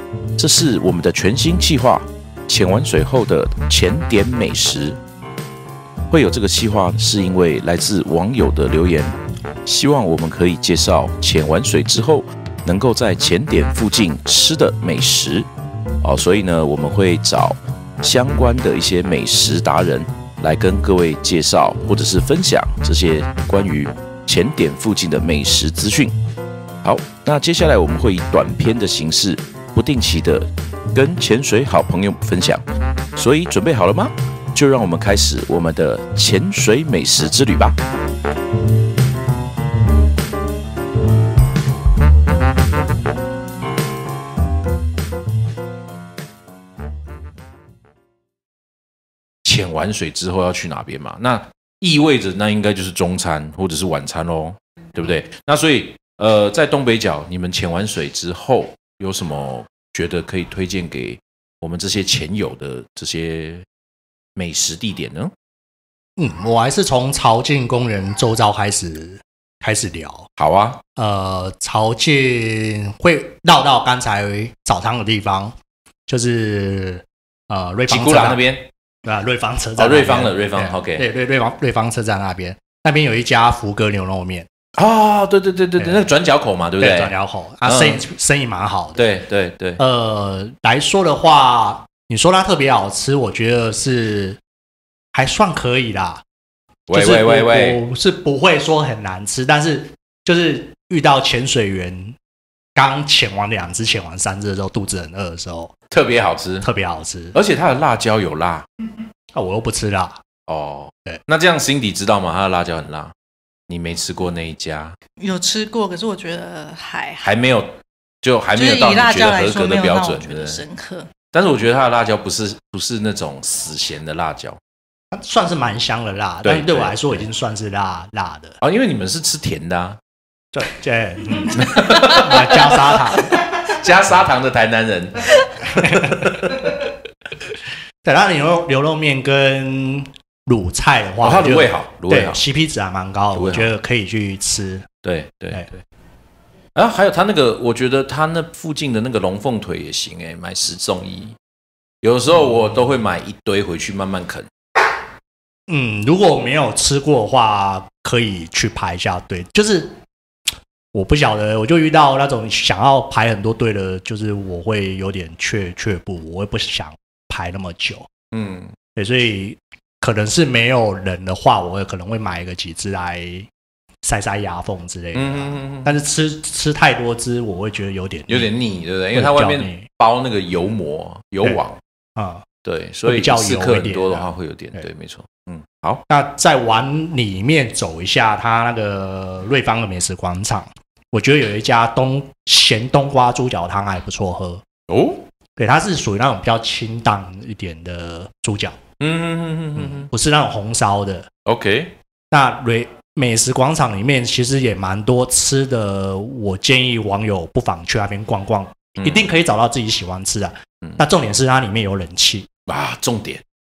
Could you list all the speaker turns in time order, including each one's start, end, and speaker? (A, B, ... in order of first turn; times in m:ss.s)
0:00.4-0:05.0 A
0:06.1-0:15.5 A
0:16.0-0:26.2 A
0:26.8-0:32.6 A
0:33.2-0:37.8 A
0:49.4-1:03.7 A
1:04.4-1:05.3 A
1:06.2-1:10.3 B
1:10.4-1:10.8 A
1:11.0-1:15.6 B
1:16.1-1:18.4 B
1:17.9-1:18.7 A
1:19.0-1:24.5 B
1:19.8-1:21.0 A
1:24.8-1:27.1 A
1:25.8-1:26.1 B
1:26.8-1:29.0 B
1:27.6-1:28.0 A
1:29.0-1:29.8 A
1:29.8-1:34.4 B
1:35.1-1:36.2 B
1:36.9-1:37.8 A
1:36.9-1:42.2 B
1:42.8-1:45.7 B
1:45.9-1:46.7 A
1:46.6-1:47.4 B
1:47.3-1:48.7 A
1:49.3-1:50.2 B
1:50.5-1:53.1 A
1:53.7-1:55.0 A
1:55.2-1:57.3 C
1:57.2-2:00.6 A
1:58.5-2:01.1 C
2:01.3-2:04.6 A
2:05.1-2:08.6 B
2:06.4-2:07.3 A
2:08.6-2:10.0 A
2:10.5-2:13.3 B
2:11.6-2:12.7 A
2:13.6-2:15.3 A
2:15.8-2:16.5 B
2:16.1-2:16.7 A
2:18.0-2:24.9 B
2:21.2-2:22.4 A
2:23.3-2:23.7 A
2:25.0-2:25.8 A
2:26.8-2:31.4 A
2:32.0-2:34.5 A
2:35.7-2:40.0 B
2:40.9-2:48.1 B
2:48.3-2:48.7 A
2:49.0-2:53.5 B
2:54.0-2:58.5 B
2:55.1-2:55.9 A
2:58.3-3:01.8 A
2:59.1-2:59.9 B
3:02.2-3:02.4 B
3:02.6-3:06.0 A
3:03.0-3:04.9 B
3:06.1-3:14.6 B
3:14.9-3:15.2 A
3:15.6-3:18.8 B
3:19.0-3:20.1 A
3:19.8-3:21.3 B
3:21.5-3:21.9 A
3:22.3-3:32.5 B
3:29.0-3:29.3 A
3:32.7-3:33.4 A